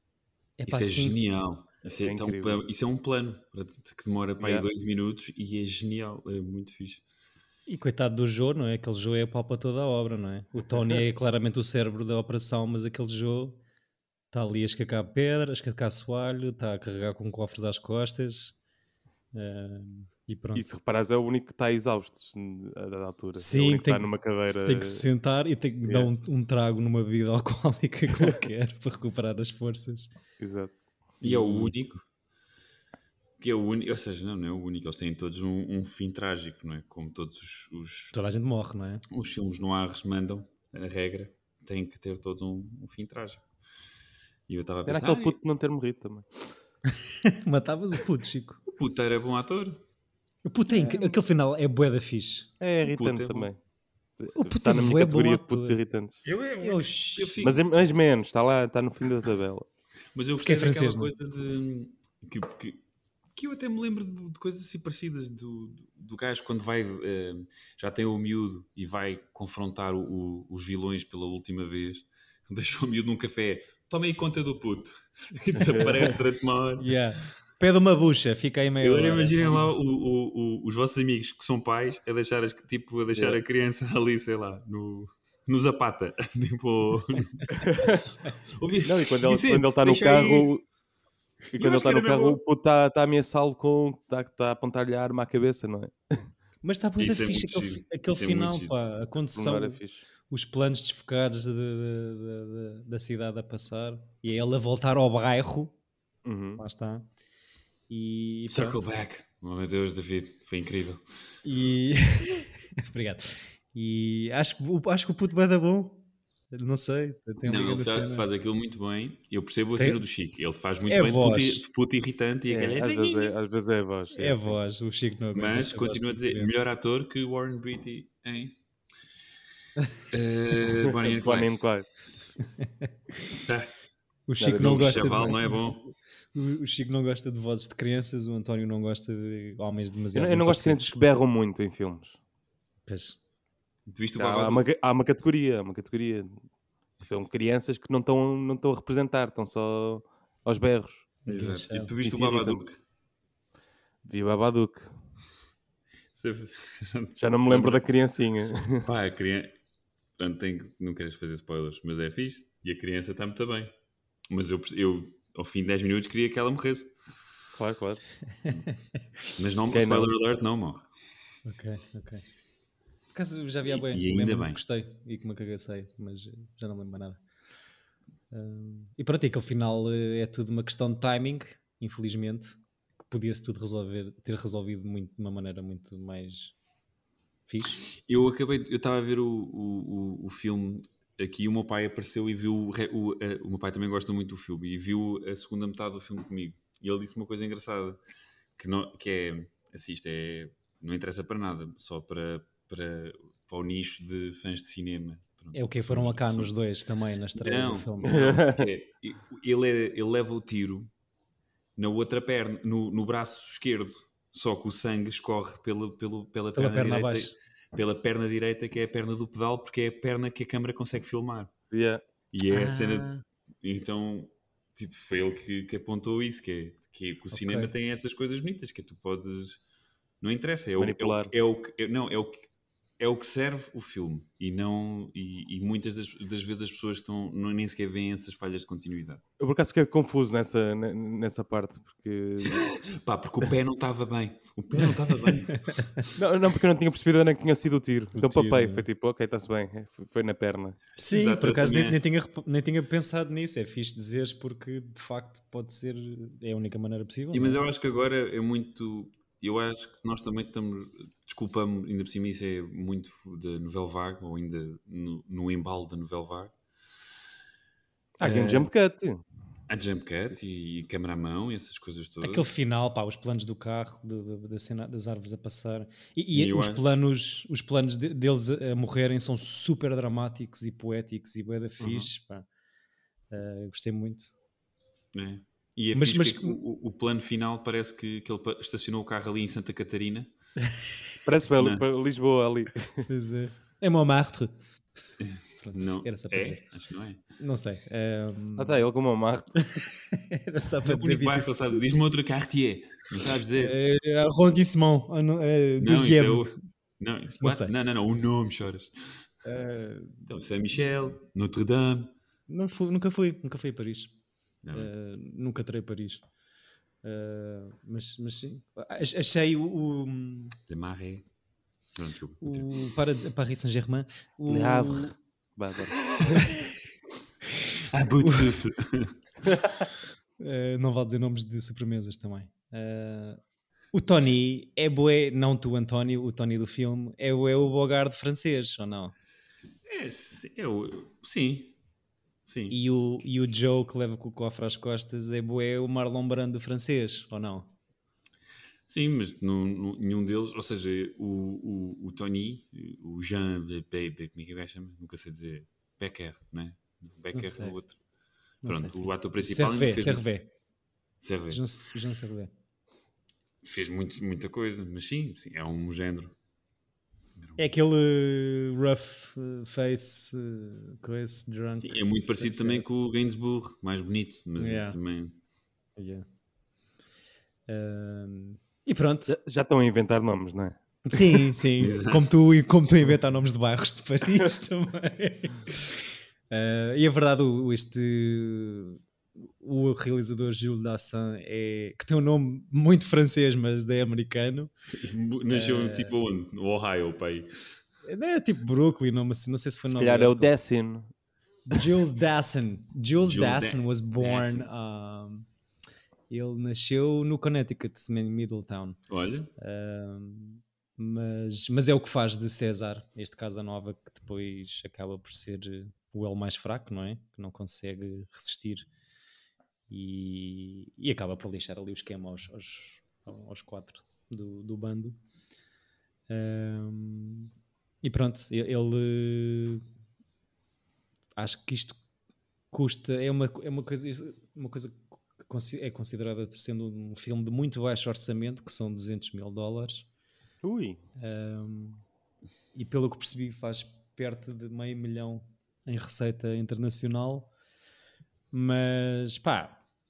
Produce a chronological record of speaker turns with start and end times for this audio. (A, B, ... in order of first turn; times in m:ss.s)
0:00.6-0:01.2 A
0:00.7-0:07.0 B
0:02.0-0:02.6 C
0:04.4-0:04.6 C
0:07.7-0:13.6 A
0:14.3-0:18.6 A
0:19.3-0:20.7 A
0:20.5-0:25.0 C
0:23.3-0:30.1 A
0:30.4-0:31.7 C
0:31.2-0:32.0 B
0:33.4-0:38.2 B
0:38.1-0:39.0 A
0:39.1-0:43.4 B
0:44.5-0:45.4 B
0:44.8-0:46.5 C
0:47.0-0:48.6 A
0:48.7-0:49.8 B
0:50.4-0:52.5 A
0:50.7-0:51.1 C
0:52.6-0:53.6 C
0:52.8-0:53.5 B
0:54.2-0:56.2 C
0:54.4-0:55.8 A
0:56.2-0:57.6 B
0:56.6-0:57.4 A
0:57.4-0:59.7 C
1:00.1-1:02.8 B
1:00.4-1:01.1 A
1:03.3-1:17.0 B
1:15.6-1:16.2 C
1:16.8-1:19.7 A
1:18.8-1:28.0 B
1:23.1-1:23.4 C
1:27.6-1:28.0 C
1:28.6-1:30.5 B
1:28.8-1:30.6 C
1:31.5-1:36.2 C
1:31.5-1:32.4 B
1:36.6-1:45.7 A
1:37.0-1:38.7 B
1:39.2-1:40.0 C
1:46.2-1:46.6 C
1:46.6-1:47.1 A
1:47.9-1:48.8 A
1:48.5-1:51.0 B
1:51.4-1:58.2 A
1:57.4-2:03.3 B
2:00.9-2:01.6 A
2:02.5-2:04.6 C
2:04.1-2:06.5 A
2:05.3-2:08.5 B
2:10.1-2:11.5 B
2:10.7-2:11.9 C
2:12.6-2:12.9 A
2:13.4-2:13.7 B
2:14.3-2:21.0 A
2:14.4-2:15.1 C
2:14.4-2:15.8 B
2:20.1-2:22.2 C
2:22.8-2:23.2 A
2:23.9-2:24.6 B
2:24.2-2:26.4 C
2:27.0-2:31.1 C
2:31.2-2:31.9 A
2:31.3-2:32.8 B
2:32.0-2:32.6 C
2:34.0-2:35.0 C
2:36.1-2:37.8 B
2:37.2-2:38.9 C
2:38.8-2:39.5 B
2:40.2-2:43.7 B
2:44.3-2:46.9 B
2:47.5-2:48.0 C
2:49.4-2:50.8 B
2:49.7-2:50.1 C
2:51.4-2:52.2 A
2:53.1-2:57.2 A
2:53.7-2:54.6 B
2:58.3-3:06.5 A
3:07.5-3:07.8 A
3:07.9-3:18.0 B
3:18.6-3:26.5 B
3:25.5-3:28.3 A
3:27.4-3:30.9 B
3:28.1-3:28.7 C
3:31.8-3:41.5 B
3:36.5-3:37.3 A
3:41.7-3:42.0 C
3:42.3-3:43.1 B
3:42.5-3:43.2 A
3:43.6-3:49.6 B
3:47.3-3:47.7 A
3:50.2-3:52.5 B
3:50.8-3:51.3 C
3:53.0-3:59.2 B
3:59.4-4:02.6 C
4:02.4-4:06.0 B
4:04.8-4:05.9 A
4:06.2-4:10.8 C
4:08.1-4:08.8 A
4:11.0-4:17.6 A
4:11.0-4:12.0 B
4:17.3-4:26.5 B
4:28.2-4:29.2 C
4:28.2-4:28.7 B
4:29.7-4:32.4 B
4:32.2-4:42.4 A
4:36.3-4:36.8 B
4:43.3-4:44.3 A
4:45.1-4:50.3 B
4:45.9-4:46.6 A
4:51.2-4:53.1 C
4:51.6-4:51.8 B
4:53.1-4:54.5 A
4:55.2-4:57.2 B
4:55.6-4:56.6 A
4:57.4-4:58.8 A
4:58.6-4:59.6 C
4:59.6-5:01.5 A
5:00.8-5:03.8 B
5:03.6-5:06.5 A
5:05.8-5:09.3 B
5:07.4-5:07.7 A
5:09.4-5:10.3 A
5:10.3-5:12.1 B
5:12.5-5:14.1 A
5:14.6-5:14.9 B
5:14.7-5:16.2 A
5:17.0-5:20.6 A
5:20.7-5:21.2 B
5:21.9-5:22.7 B
5:22.4-5:25.1 A
5:24.5-5:26.4 C
5:26.3-5:26.7 A
5:27.9-5:29.2 B
5:28.2-5:28.5 A
5:30.4-5:33.4 A
5:33.9-5:39.1 A
5:39.9-5:41.7 B
5:42.4-5:42.8 B
5:42.7-5:47.7 A
5:48.9-5:58.0 B
5:57.3-5:57.8 A
5:58.6-6:00.5 A
5:58.6-6:00.2 B
6:01.2-6:01.6 B
6:01.5-6:02.5 A
6:03.6-6:06.3 B
6:07.6-6:12.9 A
6:11.8-6:15.3 B
6:14.6-6:15.0 A
6:16.0-6:16.2 A
6:17.7-6:19.4 A
6:19.3-6:21.4 C
6:21.0-6:34.7 A
6:21.8-6:22.3 B
6:35.0-6:37.5 B
6:35.5-6:36.1 A
6:38.0-6:40.5 A
6:39.9-6:41.1 C
6:41.7-6:45.4 A
6:43.2-6:44.7 B
6:46.3-6:49.0 A
6:49.1-6:49.5 B
6:49.6-6:58.9 A
6:59.9-7:05.2 A
7:06.3-7:07.5 A
7:08.0-7:09.8 A
7:11.4-7:12.0 A
7:12.7-7:20.0 A
7:20.6-7:21.0 C
7:21.2-7:22.0 A
7:22.7-7:27.5 A
7:28.5-7:29.8 A